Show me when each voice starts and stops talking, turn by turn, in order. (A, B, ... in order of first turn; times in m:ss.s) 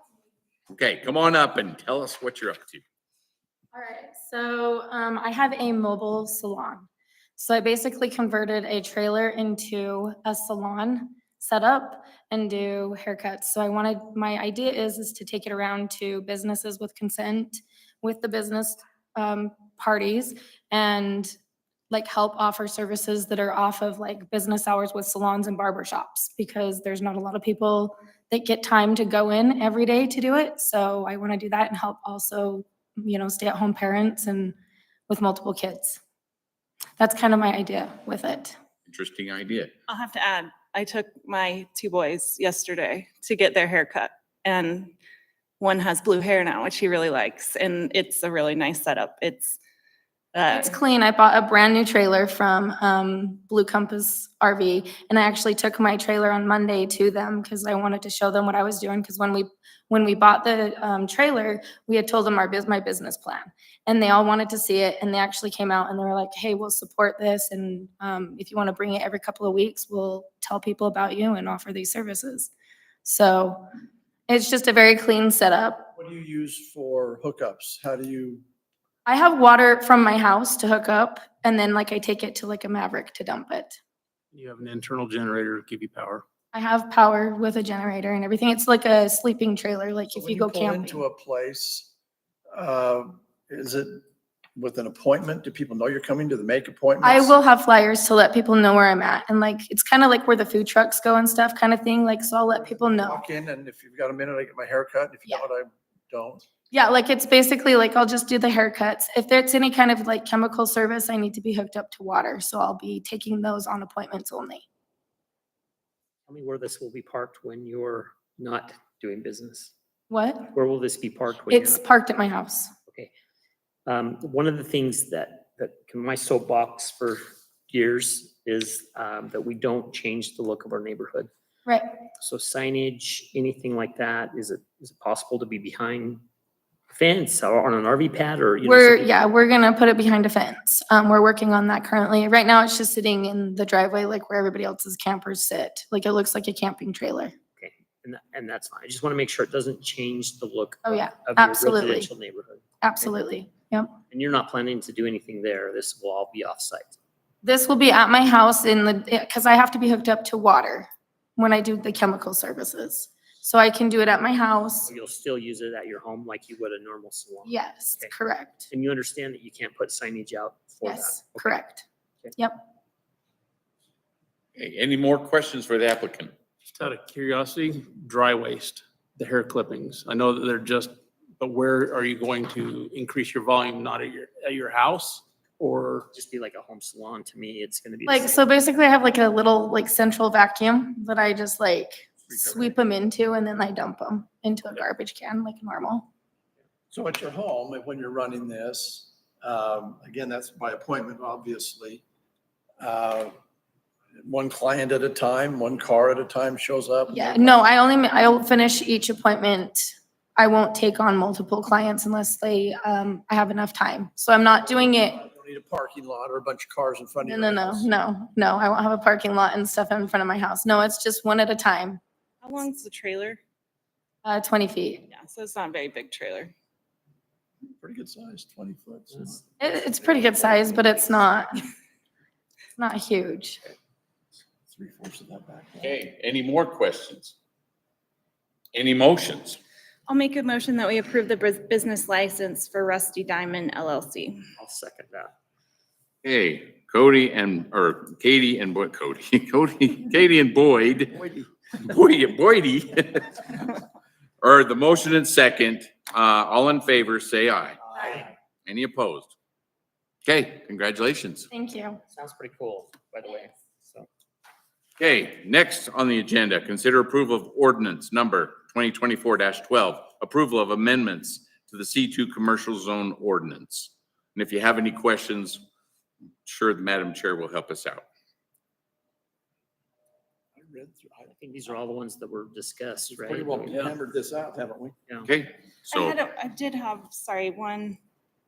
0:00.7-0:02.8 A
0:03.7-0:21.4 B
0:21.9-0:34.6 B
0:35.1-0:36.0 B
0:37.0-0:38.6 B
0:38.9-0:39.7 A
0:39.9-0:44.9 C
0:45.6-0:49.6 C
0:50.3-0:50.8 C
0:50.5-1:12.5 B
1:13.0-1:13.6 B
1:14.3-1:15.9 B
1:16.0-1:18.4 D
1:19.0-1:23.8 B
1:24.3-1:26.2 E
1:26.5-1:31.0 B
1:30.1-1:31.9 D
1:32.5-1:34.0 D
1:34.5-1:37.4 D
1:37.0-1:43.2 B
1:42.6-1:46.4 D
1:46.7-1:54.6 B
1:56.3-1:59.7 F
2:00.1-2:00.5 B
2:00.5-2:01.8 F
2:01.5-2:02.7 B
2:03.8-2:11.3 F
2:12.2-2:16.2 F
2:16.9-2:19.2 F
2:18.6-2:27.3 B
2:27.6-2:33.3 F
2:30.8-2:32.1 B
2:32.8-2:33.9 B
2:34.1-2:37.0 F
2:37.4-2:44.9 B
2:44.8-2:48.1 F
2:47.4-2:48.7 B
2:48.7-2:51.6 F
2:50.8-2:51.8 B
2:52.4-2:52.6 B
2:54.6-2:56.3 A
2:56.7-3:06.1 E
3:06.1-3:08.4 F
3:08.0-3:16.1 B
3:12.3-3:12.8 D
3:16.9-3:22.0 D
3:22.8-3:23.3 D
3:24.2-3:27.6 D
3:27.1-3:35.2 B
3:35.1-3:38.0 D
3:37.2-3:42.0 B
3:42.4-3:43.4 C
3:44.2-3:45.1 B
3:45.1-3:46.5 C
3:47.8-3:49.4 D
3:49.6-3:51.6 B
3:50.1-3:51.3 D
3:52.8-3:53.6 B
3:54.7-3:55.9 D
3:55.8-3:57.3 A
3:58.7-3:59.6 A
4:00.1-4:04.5 C
4:04.6-4:05.3 F
4:06.2-4:13.7 A
4:14.4-4:17.8 A
4:18.6-4:19.3 A
4:20.2-4:21.5 A
4:21.5-4:22.0 B
4:22.1-4:24.1 F
4:25.0-4:35.6 A
4:36.4-4:38.0 A
4:40.6-4:41.4 D
4:41.3-4:44.0 F
4:43.2-4:45.0 D
4:45.2-4:46.2 A
4:45.9-4:48.0 C